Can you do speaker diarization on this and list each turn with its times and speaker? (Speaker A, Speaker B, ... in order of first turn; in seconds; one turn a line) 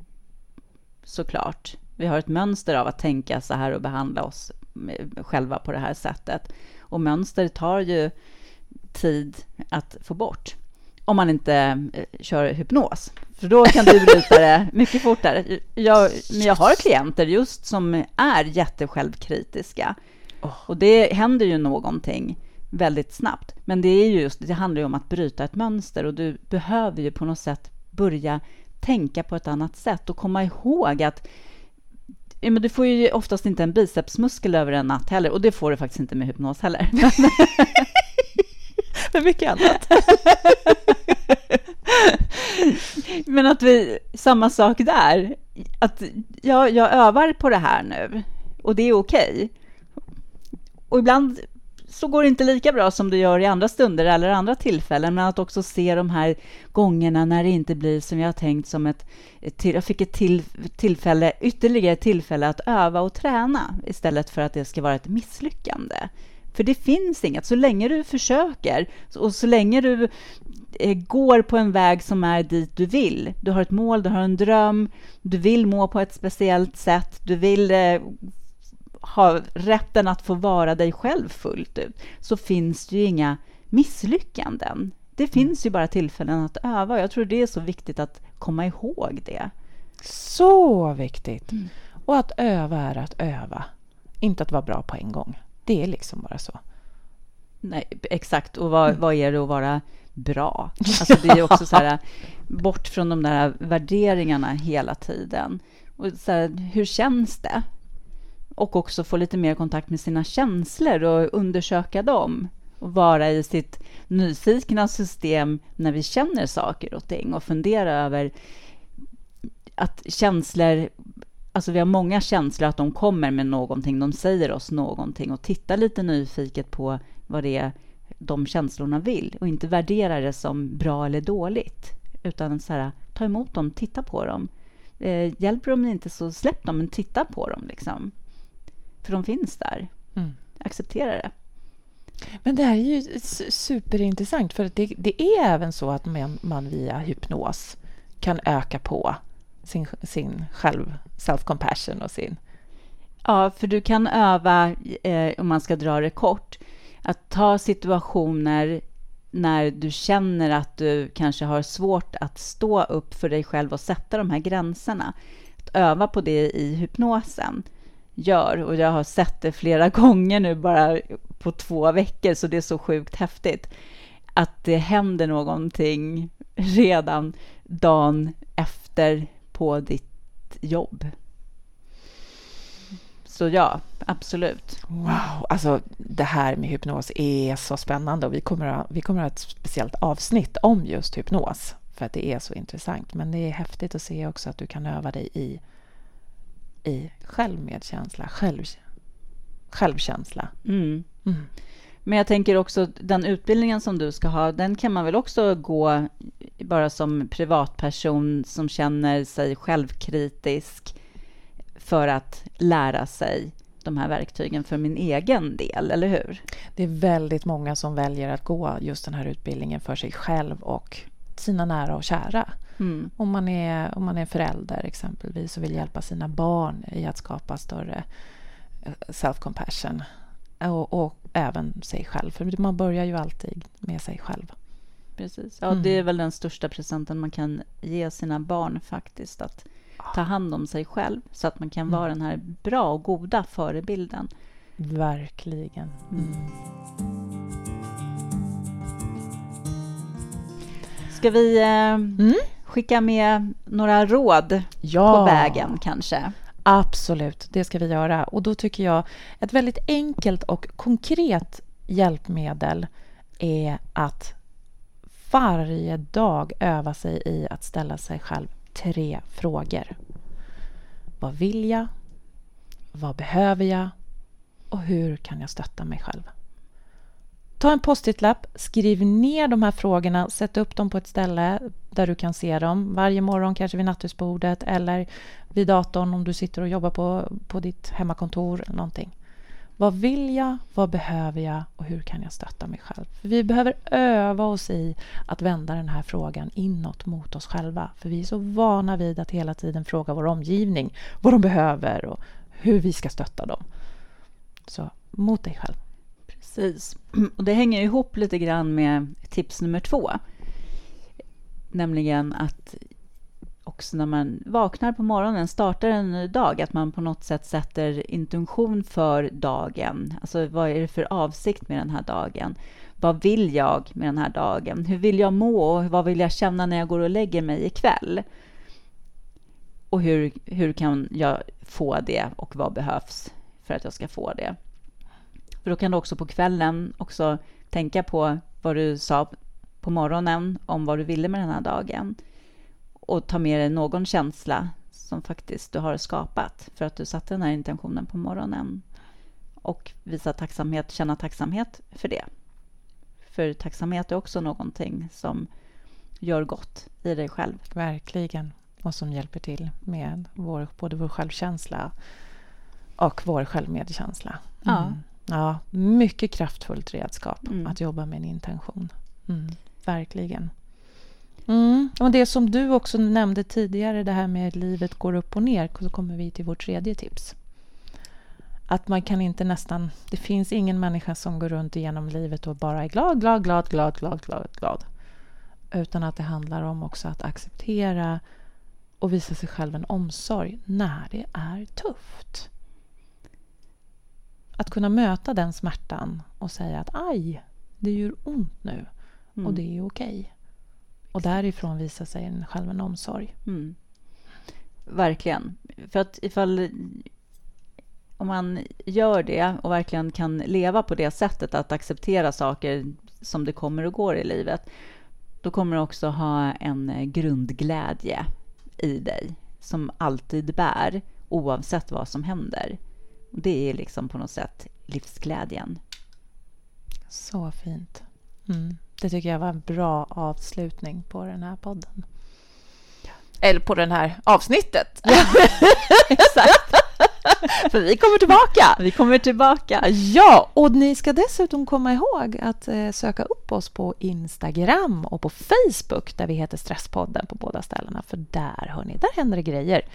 Speaker A: 1.0-8.1
Speaker A: 8.9-10.6
Speaker A: 11.1-19.9
Speaker A: 20.6-31.3
Speaker A: 32.4-37.9
Speaker B: 39.0-42.1
Speaker A: 39.9-41.0
Speaker A: 42.3-49.5
Speaker A: 50.9-78.3
Speaker A: 79.0-89.5
Speaker B: 90.0-93.7
Speaker B: 94.2-96.6
Speaker A: 97.6-107.7
Speaker A: 108.6-118.3
Speaker A: 119.8-120.9
Speaker A: 121.5-138.1
Speaker A: 139.0-139.9
Speaker A: 140.6-141.3
Speaker B: 142.3-152.4
Speaker A: 153.2-165.1
Speaker A: 165.6-167.7
Speaker A: 168.2-173.7
Speaker A: 174.3-181.1
Speaker A: 183.2-184.8
Speaker B: 184.9-195.6
Speaker B: 196.8-198.8
Speaker B: 199.7-200.5
Speaker A: 200.6-201.1
Speaker A: 202.0-210.9
Speaker A: 211.8-216.4
Speaker B: 216.7-222.5
Speaker A: 222.8-223.1
Speaker B: 223.2-228.1
Speaker B: 228.8-230.0
Speaker B: 230.6-234.5
Speaker A: 235.2-244.3
Speaker B: 235.7-236.0
Speaker B: 244.8-246.5
Speaker A: 251.1-256.3
Speaker B: 252.2-252.5
Speaker B: 254.8-255.8
Speaker B: 256.6-262.9
Speaker B: 263.4-264.4
Speaker B: 265.2-270.0
Speaker B: 271.2-271.9
Speaker B: 272.9-273.9
Speaker B: 274.7-276.3
Speaker B: 277.6-289.1
Speaker B: 289.8-303.6
Speaker B: 304.7-305.8
Speaker A: 306.4-310.2
Speaker A: 311.7-312.8
Speaker A: 313.6-328.2
Speaker A: 329.9-334.6
Speaker A: 335.6-342.2
Speaker A: 343.0-348.8
Speaker A: 349.6-352.3
Speaker A: 353.3-355.5
Speaker A: 356.2-357.6
Speaker B: 357.7-361.9
Speaker B: 363.0-370.5
Speaker A: 364.6-365.0
Speaker A: 367.5-367.7
Speaker B: 371.5-377.4
Speaker B: 378.7-384.8
Speaker B: 385.7-388.2
Speaker B: 389.0-392.5
Speaker B: 394.6-398.9
Speaker B: 399.4-400.3
Speaker B: 401.1-403.3
Speaker A: 403.4-403.8
Speaker A: 404.9-407.1
Speaker A: 408.2-414.7
Speaker A: 415.4-422.8
Speaker A: 423.3-425.8
Speaker B: 427.1-432.1
Speaker B: 433.4-438.8
Speaker A: 435.1-435.5
Speaker A: 436.1-436.7
Speaker A: 438.8-439.9
Speaker B: 439.8-449.8